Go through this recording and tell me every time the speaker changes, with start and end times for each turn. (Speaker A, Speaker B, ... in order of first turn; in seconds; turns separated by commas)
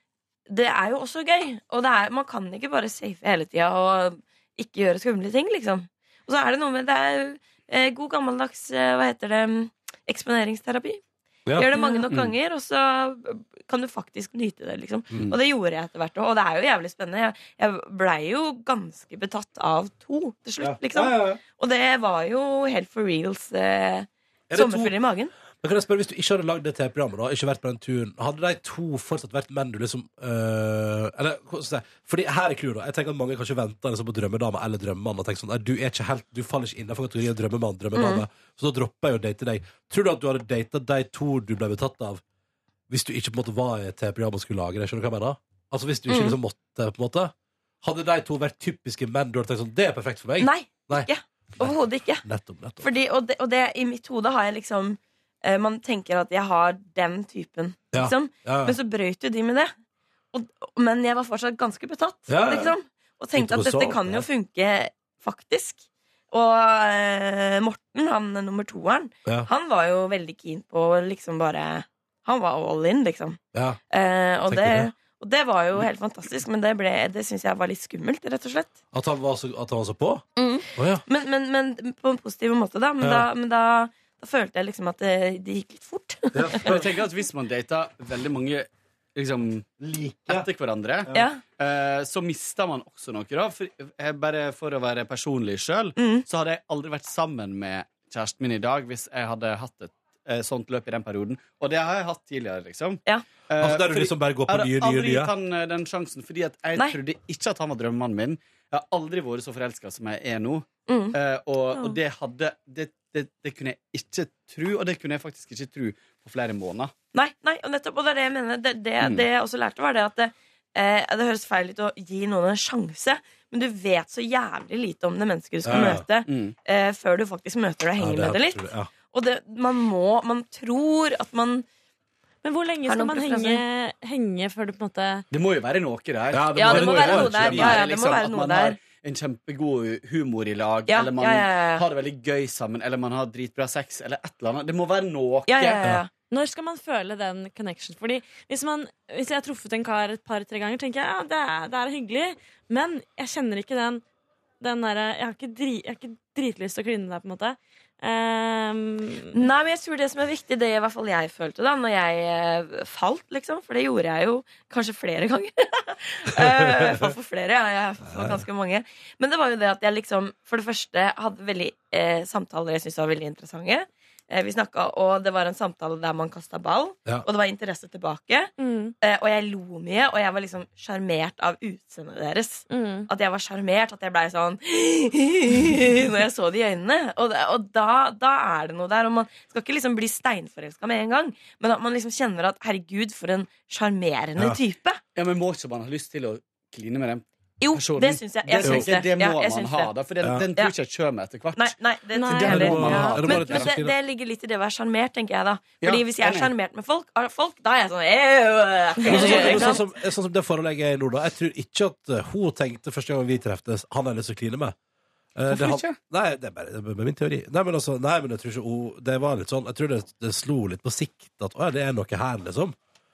Speaker A: 0.5-11.0, Speaker A: 11.5-25.3, Speaker B: 12.1-12.3, Speaker C: 20.6-21.4, Speaker C: 24.5-24.9, Speaker C: 25.5-42.2, Speaker A: 37.9-38.2, Speaker C: 42.9-51.1, Speaker A: 46.1-46.4, Speaker A: 50.4-52.2, Speaker C: 51.6-52.8, Speaker A: 52.8-59.7, Speaker C: 57.9-58.7, Speaker A: 60.3-73.4, Speaker C: 62.3-62.7, Speaker C: 63.3-64.2, Speaker C: 73.5-73.8, Speaker A: 73.9-78.8, Speaker C: 74.5-74.9, Speaker C: 78.9-81.0, Speaker A: 80.3-86.7, Speaker C: 83.0-83.3, Speaker C: 86.3-87.0, Speaker B: 86.6-89.7, Speaker C: 89.8-90.5, Speaker B: 90.2-116.9, Speaker A: 91.1-91.4, Speaker A: 96.0-96.2, Speaker C: 103.6-105.3, Speaker A: 110.9-111.1, Speaker A: 117.1-131.6, Speaker B: 119.0-119.2, Speaker C: 125.6-126.0, Speaker B: 125.7-126.5, Speaker C: 128.0-128.9, Speaker D: 132.4-135.2, Speaker A: 132.8-133.6, Speaker B: 135.3-145.8, Speaker C: 136.3-137.8, Speaker A: 136.5-138.8, Speaker A: 140.9-141.8, Speaker A: 145.5-146.1, Speaker D: 146.3-154.0, Speaker D: 154.6-159.3, Speaker A: 159.3-178.5, Speaker C: 168.0-168.4, Speaker D: 178.6-178.9, Speaker A: 179.0-195.0, Speaker D: 182.7-183.1, Speaker B: 195.1-201.7, Speaker A: 197.6-199.9, Speaker C: 200.2-200.5, Speaker A: 201.5-209.8, Speaker D: 202.1-202.7, Speaker B: 202.3-203.7, Speaker C: 202.4-203.9, Speaker B: 205.8-206.5, Speaker D: 209.0-209.8, Speaker C: 209.1-214.8, Speaker C: 215.3-222.8, Speaker B: 215.5-216.0